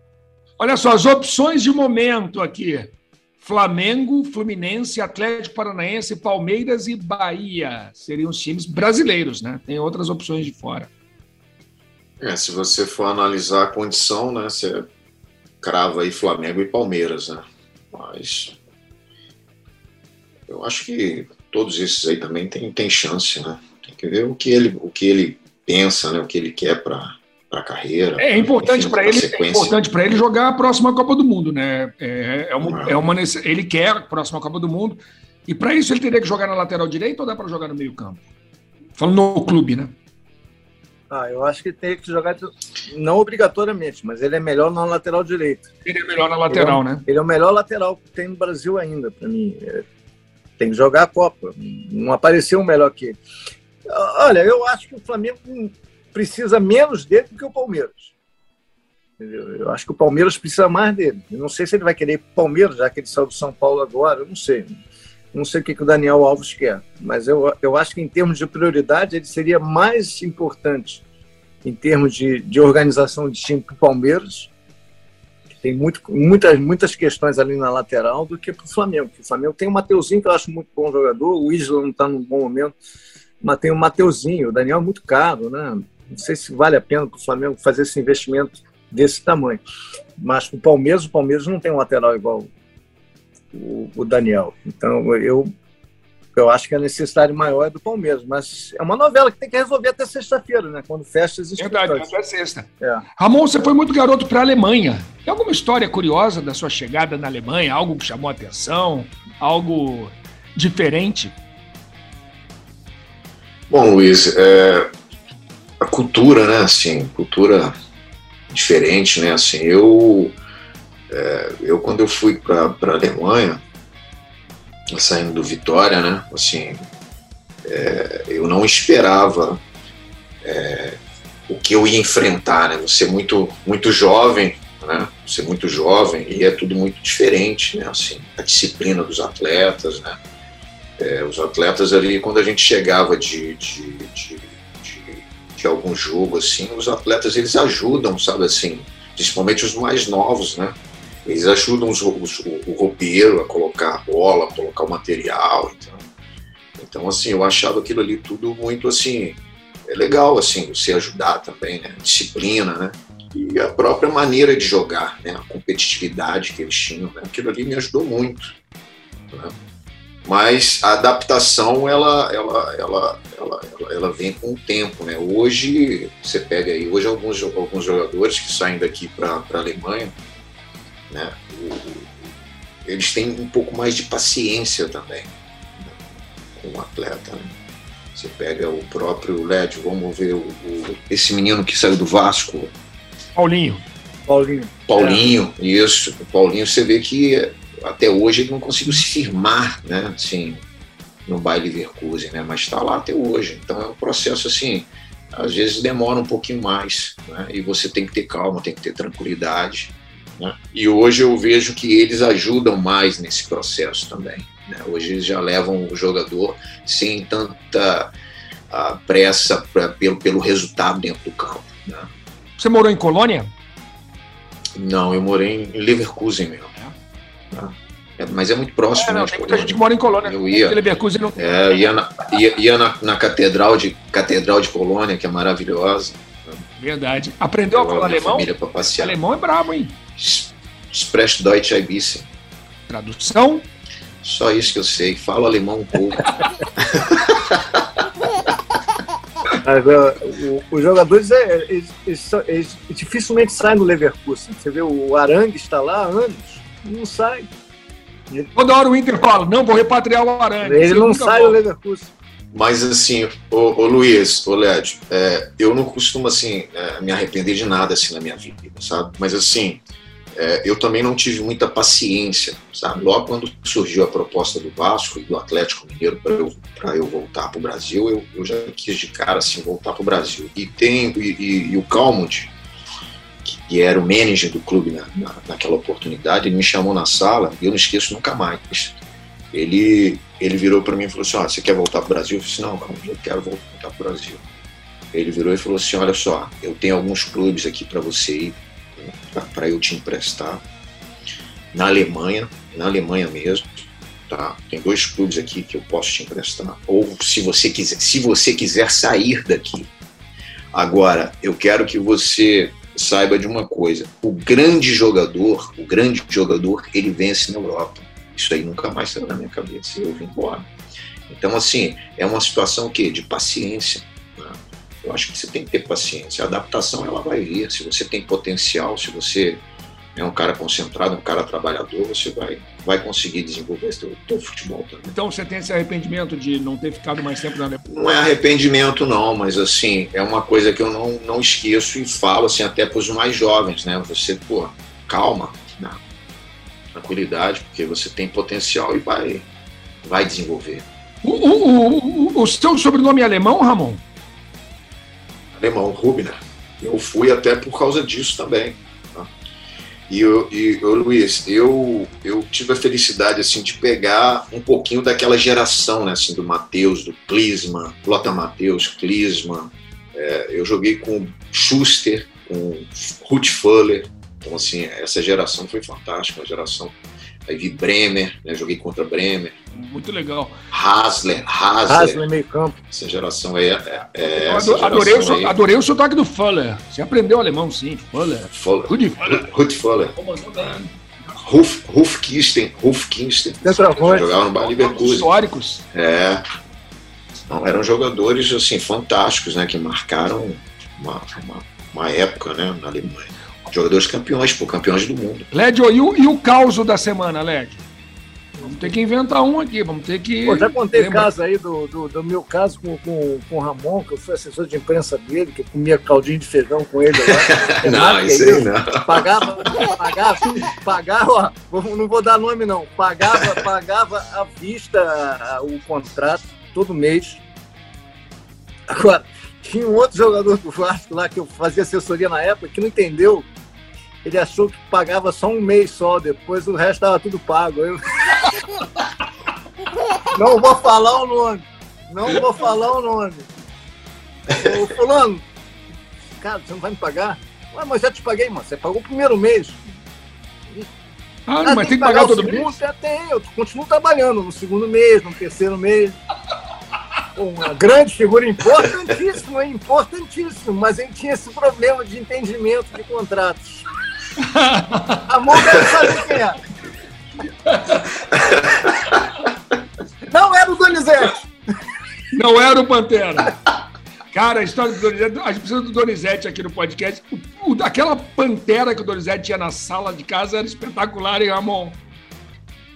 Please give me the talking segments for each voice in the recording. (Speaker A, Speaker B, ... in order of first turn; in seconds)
Speaker A: 0.6-10.9, 28.2-38.2, 39.0-39.9, 45.9-47.0, 101.6-111.3, 193.3-193.8, 222.6-223.5, 228.9-231.4, 236.8-240.0, 242.9-243.7, 258.6-261.6, 335.1-337.8, 351.2-354.0, 379.7-380.6, 384.4-389.5, 390.2-390.9, 394.6-395.9, 405.5-407.8, 408.6-411.3, 451.5-452.7, 464.4-465.2, 467.7-468.1, 472.3-473.6, 474.3-482.0
Speaker B: 12.2-14.9, 15.6-18.6, 20.5-29.8, 32.6-33.0, 113.7-114.9, 115.8-117.8, 118.5-120.4, 121.1-123.6, 124.9-126.8, 127.7-129.6, 130.4-140.2, 141.0-156.0, 156.8-168.5, 170.2-180.2, 181.1-182.3, 182.8-186.0, 186.6-187.5, 188.2-192.7, 194.9-200.6, 201.3-218.1, 218.7-222.1, 224.8-226.7, 227.5-230.8, 231.3-236.6, 237.7-239.2, 240.2-242.3, 244.2-248.0, 262.5-269.8, 270.4-282.5, 283.4-289.0, 289.5-294.4, 295.1-300.6, 301.7-309.9, 310.7-320.7, 321.3-329.6, 330.1-335.1, 337.9-346.0, 346.9-349.5, 350.0-350.9, 355.5-359.3, 360.1-379.6, 380.7-382.2, 382.9-385.6, 388.5-390.8, 391.4-395.3, 395.9-396.4, 397.5-405.5, 417.3-419.9, 468.5-469.2
Speaker C: 41.1-45.7, 46.5-49.8, 50.6-53.2, 53.9-58.1, 59.2-64.7, 65.3-71.0, 71.6-74.5, 75.6-82.8, 83.4-89.6, 90.2-92.5, 93.5-95.5, 96.3-102.1, 194.3-195.3, 249.5-257.5, 260.6-262.1, 381.9-382.8, 393.6-394.3, 408.6-408.9, 410.5-427.4, 428.9-433.5, 434.2-438.0, 440.3-443.5, 444.5-445.4, 446.4-449.8, 451.6-456.2, 457.4-463.9, 465.3-466.6, 470.3-471.5